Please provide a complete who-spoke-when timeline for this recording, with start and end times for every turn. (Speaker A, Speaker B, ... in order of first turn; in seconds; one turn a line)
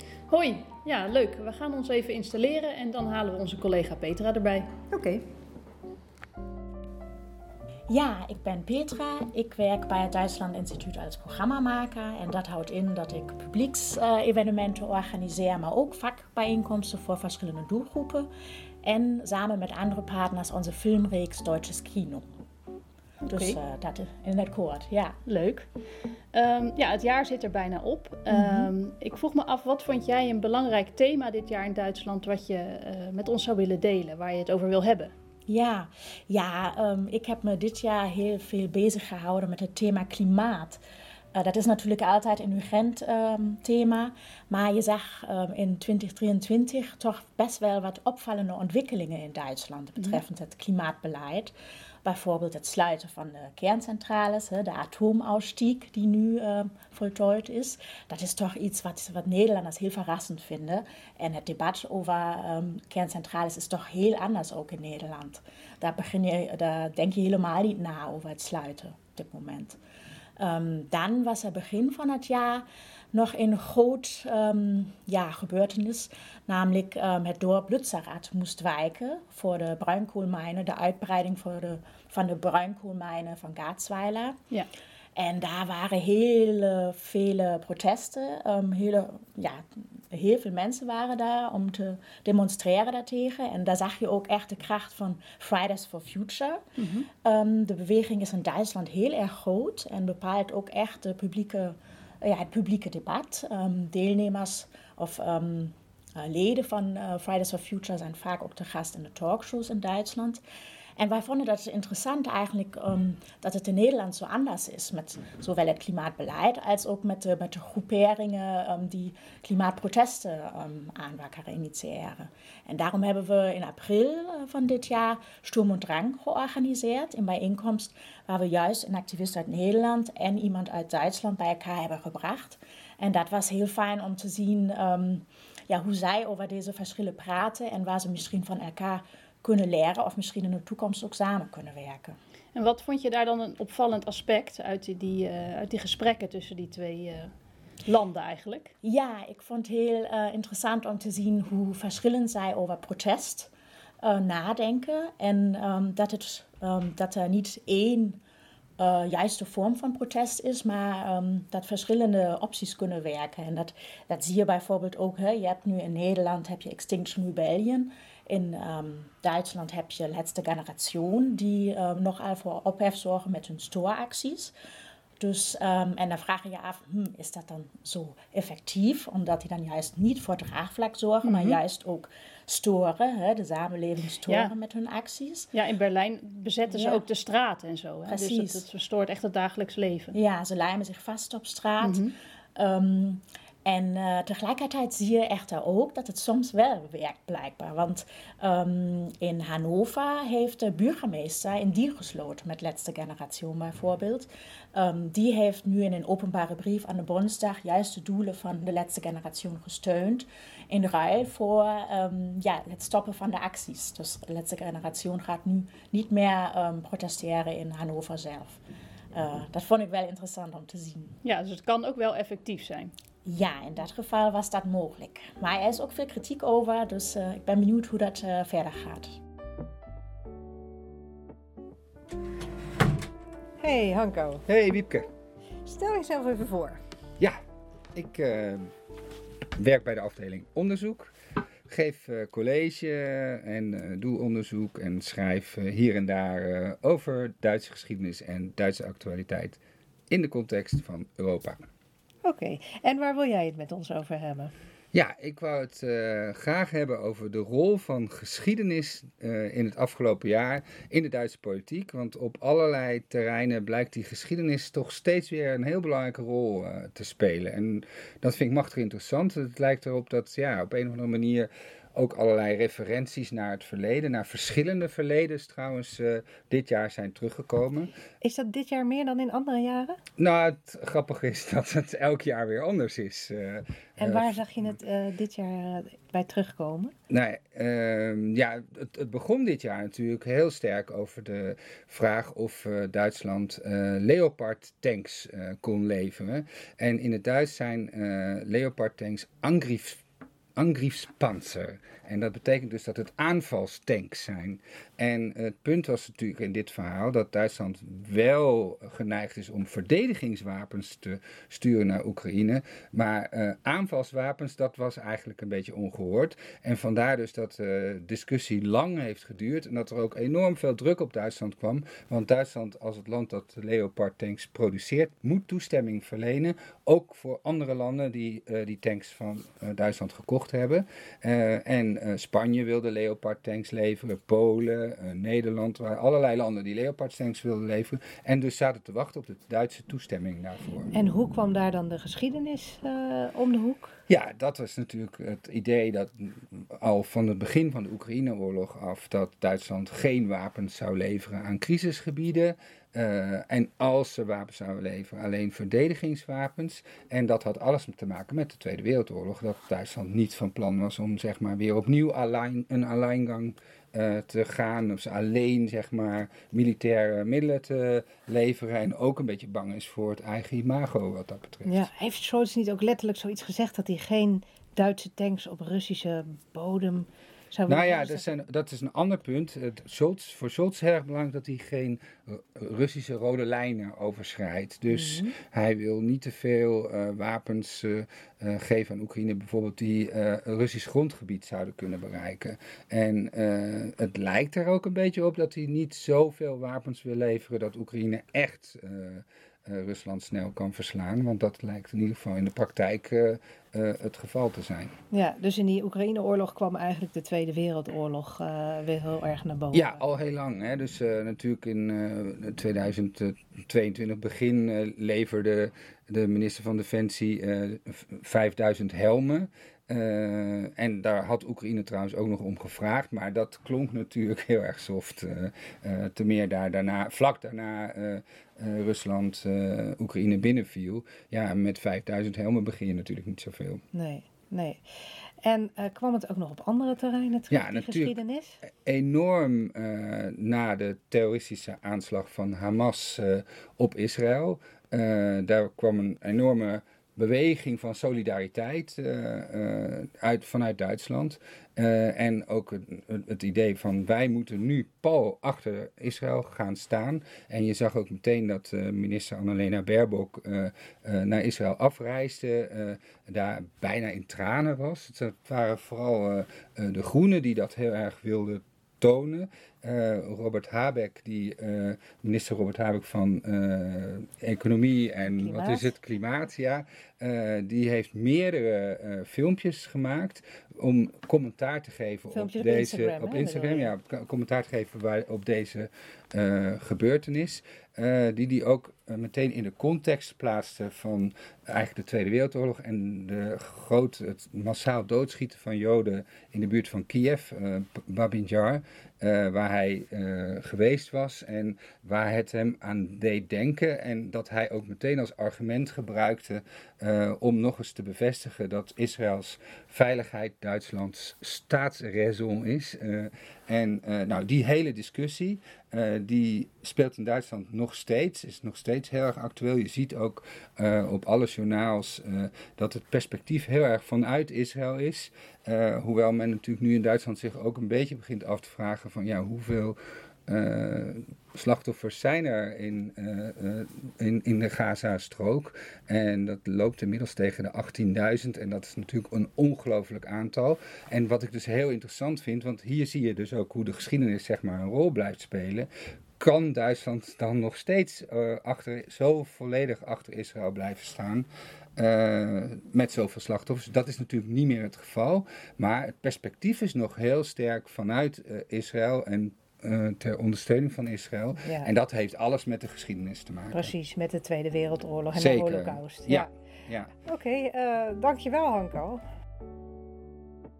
Speaker A: 0.3-4.7
Speaker B: 4.9-5.2
Speaker C: 7.9-18.3
Speaker C: 18.8-22.2
Speaker A: 23.2-23.6
Speaker C: 23.2-25.2
Speaker A: 25.2-25.7
Speaker A: 26.3-35.1
Speaker C: 28.3-28.7
Speaker C: 35.5-40.8
Speaker C: 41.3-51.5
Speaker C: 52.0-69.8
Speaker C: 70.4-84.4
Speaker C: 85.2-96.6
Speaker A: 96.8-97.1
Speaker C: 97.2-110.4
Speaker C: 111.0-142.2
Speaker A: 142.5-147.3
Speaker A: 147.8-148.7
Speaker C: 148.8-153.5
Speaker C: 154.0-158.2
Speaker C: 158.8-174.5
Speaker C: 175.2-185.5
Speaker A: 181.2-181.6
Speaker A: 184.2-184.5
Speaker A: 185.5-190.1
Speaker C: 186.7-187.0
Speaker C: 188.1-188.7
Speaker C: 190.1-218.6
Speaker A: 191.8-192.1
Speaker C: 219.1-221.1
Speaker A: 221.2-222.9
Speaker C: 223.2-229.2
Speaker B: 233.6-234.4
Speaker D: 234.4-235.1
Speaker B: 235.6-236.8
Speaker D: 237.9-238.7
Speaker D: 239.6-241.1
Speaker D: 241.7-249.6
Speaker D: 250.1-251.7
Speaker B: 252.2-254.5
Speaker D: 254.9-277.9
Speaker B: 278.2-280.0
Speaker D: 280.2-284.4
Speaker B: 284.0-286.9
Speaker D: 287.1-300.0
Speaker D: 300.6-340.9
Speaker B: 340.9-343.9
Speaker D: 344.1-371.9
Speaker B: 371.6-378.4
Speaker D: 377.7-404.9
Speaker B: 384.9-385.3
Speaker B: 405.1-409.9
Speaker D: 409.7-433.8
Speaker B: 433.9-438.6
Speaker D: 437.5-530.0
Speaker B: 475.4-475.9
Speaker B: 482.3-483.9
Speaker D: 530.5-563.9
Speaker B: 561.6-561.9
Speaker B: 563.7-566.5
Speaker D: 565.3-567.1
Speaker B: 567.2-569.2